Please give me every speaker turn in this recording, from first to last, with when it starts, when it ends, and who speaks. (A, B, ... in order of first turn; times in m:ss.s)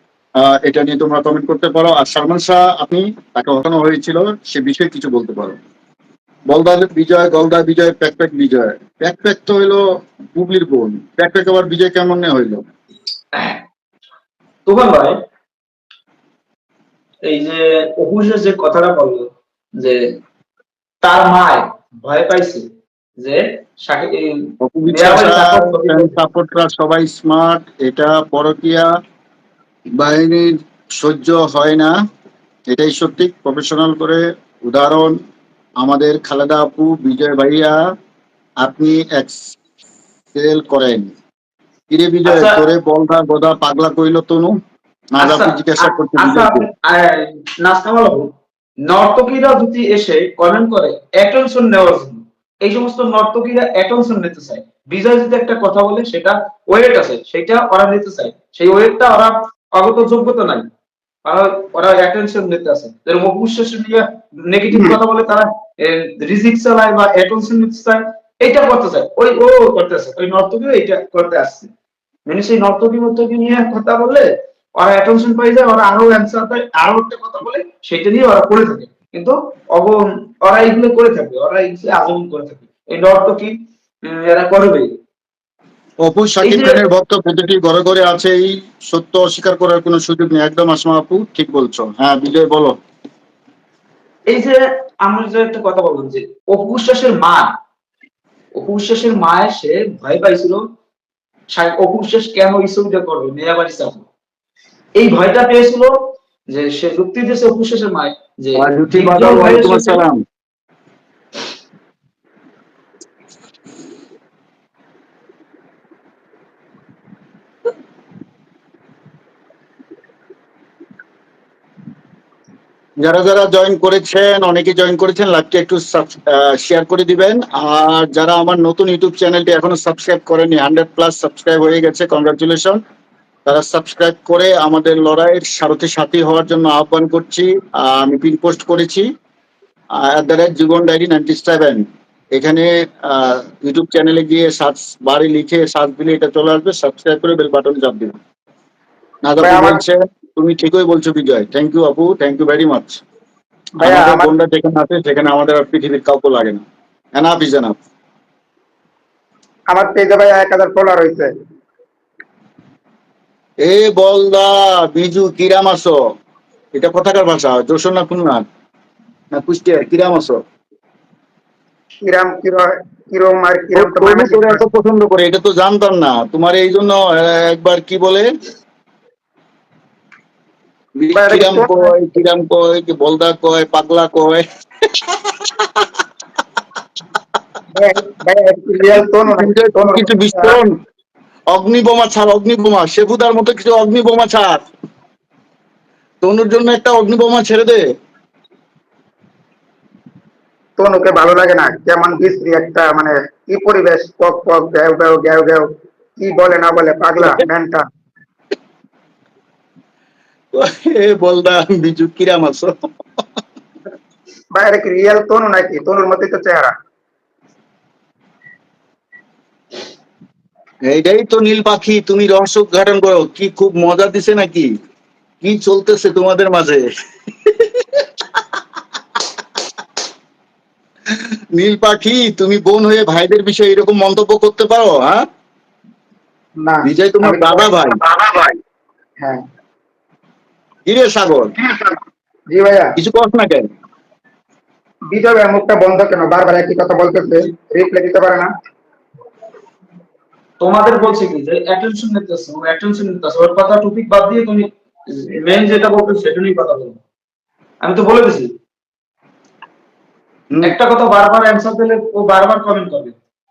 0:00.4-0:05.6 A
0:06.5-0:09.8 A
0:10.3-0:12.6 A
0:13.3-0:13.6 B
0:14.7-0:15.1 B
0:17.2-0:20.0 B
0:21.0-0:22.6 B
0:23.2-0:26.1 B
0:24.6-0:28.9 A
0:29.9-0:31.9 A
0:32.7-0:35.2 A
0:35.8-0:37.8 A
0:38.6-0:39.6 A
0:40.3-0:41.1 A
0:41.9-0:44.6 A
0:42.2-0:42.6 B
0:45.1-0:46.7 A
0:45.2-0:48.3 B
0:48.8-1:00.7 B
1:01.2-1:11.7 B
1:04.7-1:05.0 C
1:12.2-1:23.5 B
1:24.0-1:24.9 B
1:26.0-1:32.7 A
1:26.4-1:26.8 B
1:34.3-1:37.5 B
1:38.5-1:40.6 B
1:41.5-1:44.0 B
1:45.0-1:45.9 B
1:46.5-1:50.0 B
1:48.6-1:50.2 A
2:03.0-2:12.8 A
2:13.4-2:19.0 A
2:20.0-2:28.2 A
2:29.2-2:33.0 A
2:29.4-2:29.8 C
2:33.8-2:34.3 C
2:33.8-2:36.6 A
2:37.1-2:37.8 A
2:39.7-2:41.3 C
2:43.6-2:45.9 A
2:46.7-2:48.4 A
2:49.3-2:50.4 A
2:52.0-2:54.6 C
2:53.7-2:58.3 A
3:01.0-3:04.4 A
3:01.1-3:01.9 C
3:07.7-3:10.6 C
3:08.9-3:10.7 A
3:11.5-3:14.6 A
3:16.2-3:17.8 A
3:20.8-3:27.8 C
3:30.5-3:32.7 A
3:34.5-3:36.7 C
3:40.9-3:44.7 A
3:45.4-3:46.9 A
3:51.1-3:55.2 A
3:56.6-3:57.7 C
3:56.8-3:58.0 A
4:00.8-4:01.5 A
4:02.5-4:02.9 C
4:03.0-4:03.7 A
4:05.1-4:08.5 C
4:10.6-4:17.0 B
4:17.8-4:18.5 B
4:20.6-4:23.1 B